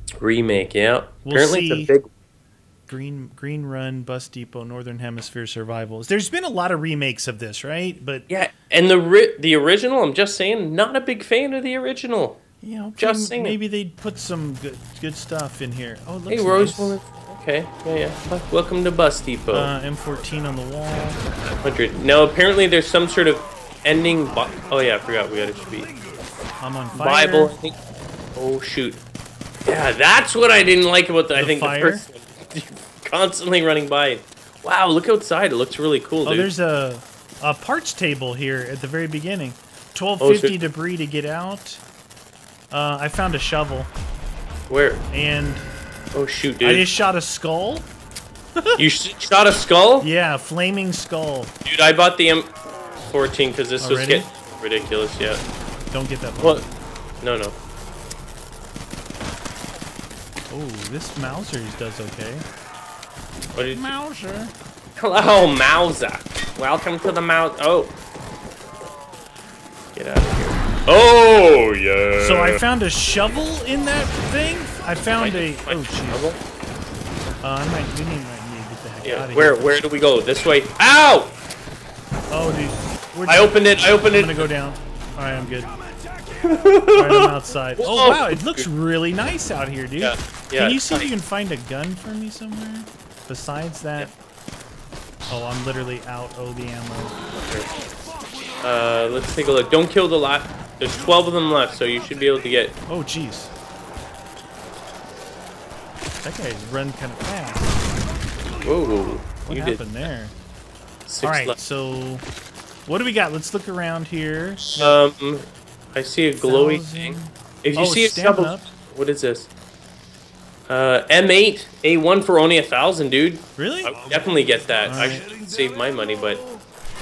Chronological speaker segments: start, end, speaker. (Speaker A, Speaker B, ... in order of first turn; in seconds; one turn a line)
Speaker A: 0.2-2.1
Speaker B: 1.2-1.9
Speaker B: 2.9-8.2
Speaker A: 8.3-12.4
Speaker B: 12.6-17.0
Speaker A: 13.0-13.6
Speaker A: 16.3-19.7
Speaker B: 19.5-21.2
Speaker A: 21.5-25.9
Speaker B: 26.6-27.5
Speaker A: 26.9-27.7
Speaker A: 28.3-29.0
Speaker A: 29.7-36.5
Speaker B: 31.3-32.0
Speaker B: 36.2-41.8
Speaker A: 40.2-40.5
Speaker B: 42.7-43.9
Speaker A: 44.7-45.0
Speaker B: 45.1-45.7
Speaker A: 46.1-46.8
Speaker B: 46.6-47.9
Speaker A: 48.8-50.1
Speaker B: 50.0-51.5
Speaker A: 51.6-52.5
Speaker A: 53.0-55.4
Speaker B: 53.8-54.3
Speaker B: 55.9-56.7
Speaker A: 57.2-57.6
Speaker B: 60.5-62.5
Speaker A: 63.5-63.9
Speaker B: 63.7-64.5
Speaker A: 65.0-68.0
Speaker A: 69.9-72.6
Speaker B: 72.2-76.3
Speaker A: 75.2-76.4
Speaker B: 77.4-79.7
Speaker A: 79.0-81.3
Speaker B: 82.3-85.8
Speaker A: 83.3-84.5
Speaker A: 86.4-88.7
Speaker B: 86.9-94.1
Speaker A: 90.0-91.1
Speaker B: 95.3-97.2
Speaker A: 97.5-97.7
Speaker A: 98.6-102.8
Speaker B: 102.9-103.5
Speaker B: 106.2-107.7
Speaker A: 108.6-109.9
Speaker B: 109.5-110.4
Speaker A: 111.1-111.5
Speaker B: 111.2-112.3
Speaker B: 112.9-115.0
Speaker A: 114.8-119.5
Speaker B: 116.4-118.7
Speaker A: 120.7-126.4
Speaker B: 123.6-124.0
Speaker B: 124.8-125.3